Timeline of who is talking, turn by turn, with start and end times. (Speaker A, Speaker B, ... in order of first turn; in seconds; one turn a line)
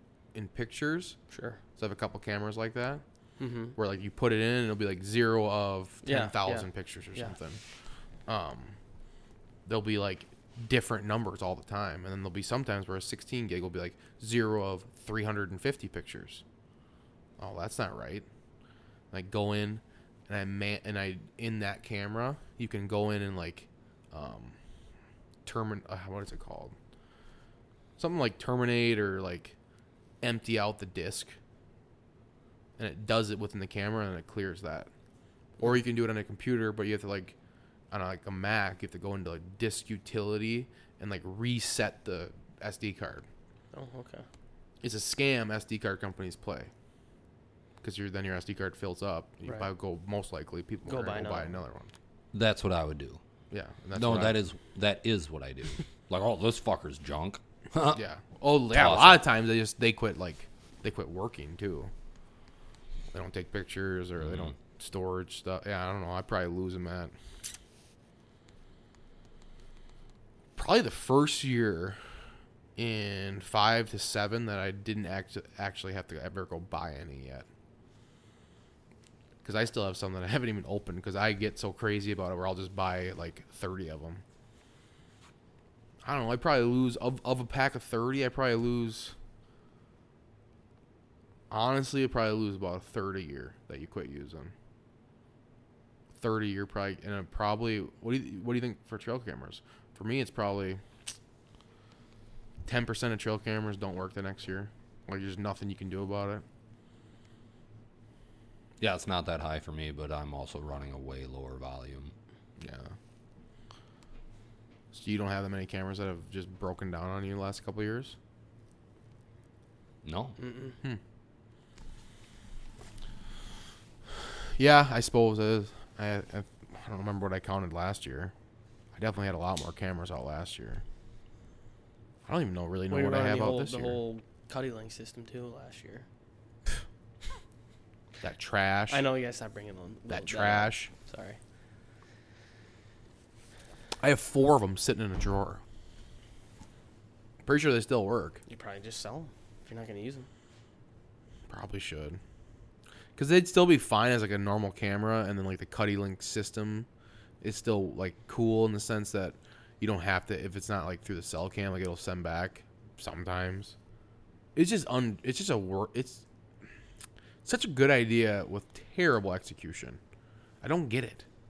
Speaker A: 0.3-1.2
Speaker B: 1.3-1.6
Speaker A: 1.8-3.0
Speaker B: 3.4-3.8
Speaker A: 3.8-7.6
Speaker B: 6.0-7.3
Speaker A: 8.3-8.8
Speaker A: 9.7-16.4
Speaker A: 17.4-18.2
Speaker A: 19.1-24.6
Speaker A: 25.4-26.8
Speaker A: 28.0-29.5
Speaker A: 30.2-31.4
Speaker A: 32.8-34.9
Speaker A: 35.6-37.4
Speaker A: 37.9-43.2
Speaker B: 43.7-44.2
Speaker A: 44.8-46.7
Speaker A: 47.8-51.9
Speaker B: 50.9-51.5
Speaker C: 52.3-53.2
Speaker A: 53.5-54.4
Speaker C: 53.9-58.0
Speaker A: 57.9-61.9
Speaker C: 58.7-59.2
Speaker A: 63.1-67.1
Speaker C: 64.2-64.5
Speaker A: 70.5-72.0
Speaker A: 72.8-77.5
Speaker A: 79.4-84.2
Speaker A: 86.0-89.1
Speaker A: 91.5-94.5
Speaker A: 96.2-100.8
Speaker A: 102.7-106.4
Speaker C: 108.8-112.1
Speaker A: 112.6-113.0
Speaker A: 114.9-118.2
Speaker C: 120.0-120.4
Speaker B: 120.4-120.8
Speaker A: 124.5-128.3
Speaker A: 128.9-130.8
Speaker A: 132.2-134.0
Speaker B: 132.9-136.0
Speaker A: 138.2-139.1
Speaker B: 138.9-141.4
Speaker A: 140.1-140.9
Speaker A: 144.0-145.6
Speaker A: 147.4-148.4
Speaker B: 148.5-150.3
Speaker A: 151.5-152.2
Speaker A: 153.2-156.9
Speaker A: 157.4-163.7
Speaker A: 164.6-166.2
Speaker A: 167.4-170.0
Speaker A: 170.6-171.2